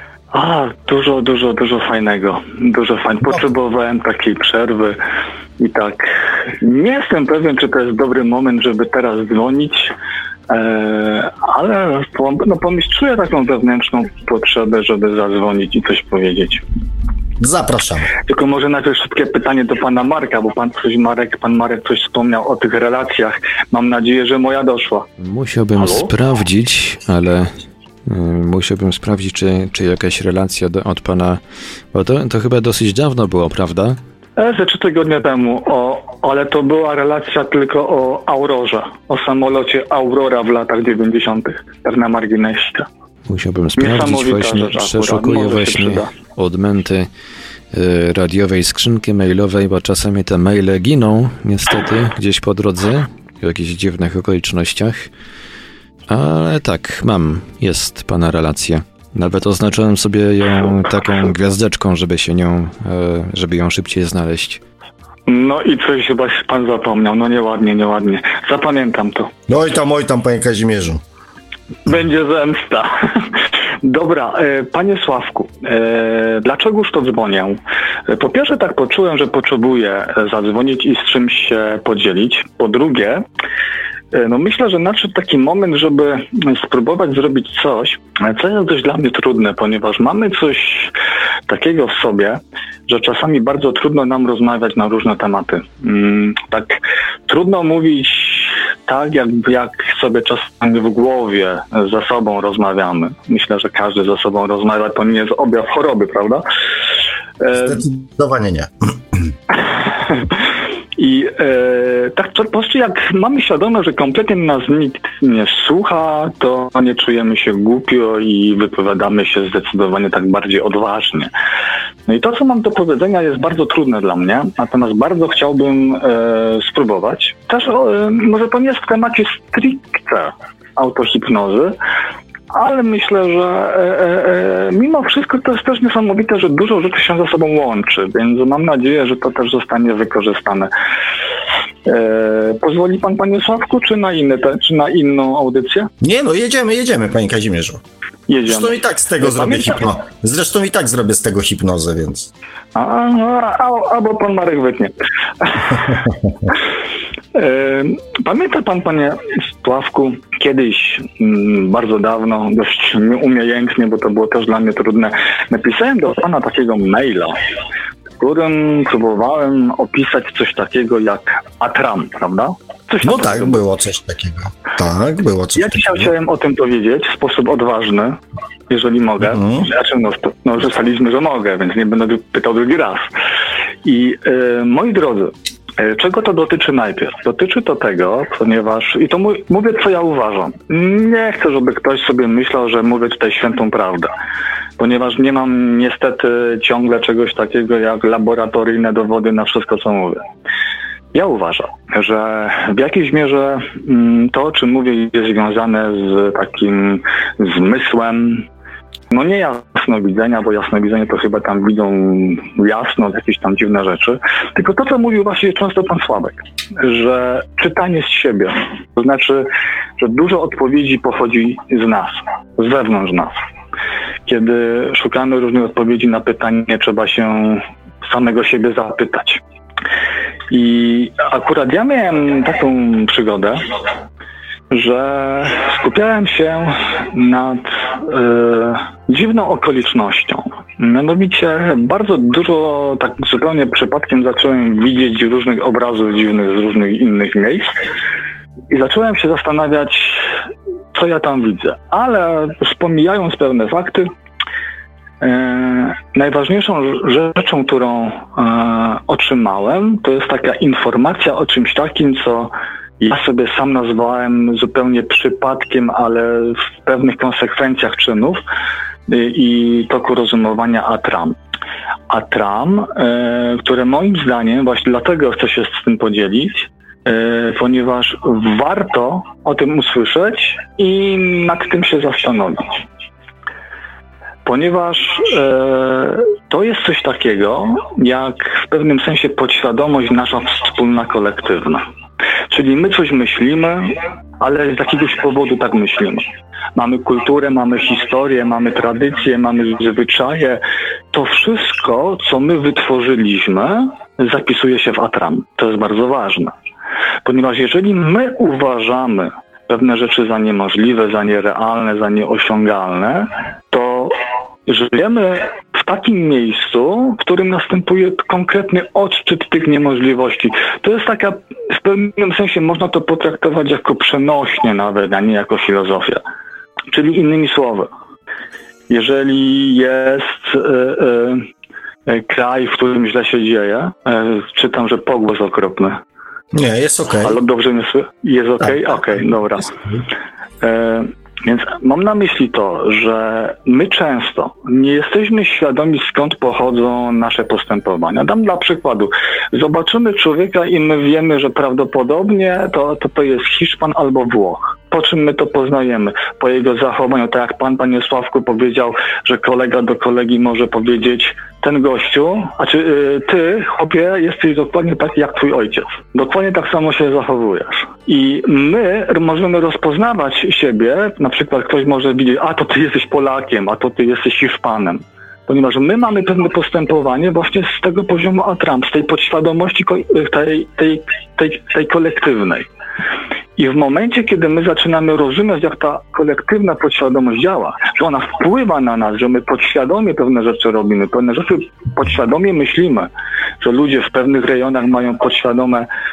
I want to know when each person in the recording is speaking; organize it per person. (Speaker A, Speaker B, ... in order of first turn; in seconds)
Speaker A: 0.3-5.0, 5.6-9.9, 10.5-16.6, 18.3-25.1, 25.8-26.1, 34.4-42.9, 43.8-46.1, 65.3-69.3, 71.9-83.2, 84.1-90.9, 91.5-106.4, 107.4-107.7, 109.9-110.3, 111.0-121.3, 122.1-131.8, 132.5-140.7, 141.8-145.9, 148.3-149.8, 152.8-155.9, 157.3-167.4, 168.2-173.6, 175.6-183.1, 183.8-194.1, 194.8-200.2, 201.1-208.5, 209.1-219.5, 220.0-223.3, 224.2-229.4, 230.5-233.6, 234.7-247.7, 248.7-250.3, 250.9-254.1, 255.2-268.4, 269.1-271.4, 272.1-282.8, 284.4-291.8, 292.5-296.2, 296.8-306.5, 307.2-314.1, 314.7-326.2, 326.9-327.9, 328.9-331.5, 332.1-336.0, 337.2-339.8, 340.6-382.7, 383.6-393.1, 393.6-395.9
Speaker B: 17.4-18.1, 69.5-71.0, 107.5-108.9, 146.0-147.8, 148.5-152.3, 173.0-176.1, 179.2-179.7, 336.5-337.4
Speaker C: 25.2-27.5, 28.1-31.4, 31.9-34.0, 43.3-47.1, 47.7-55.1, 56.1-64.6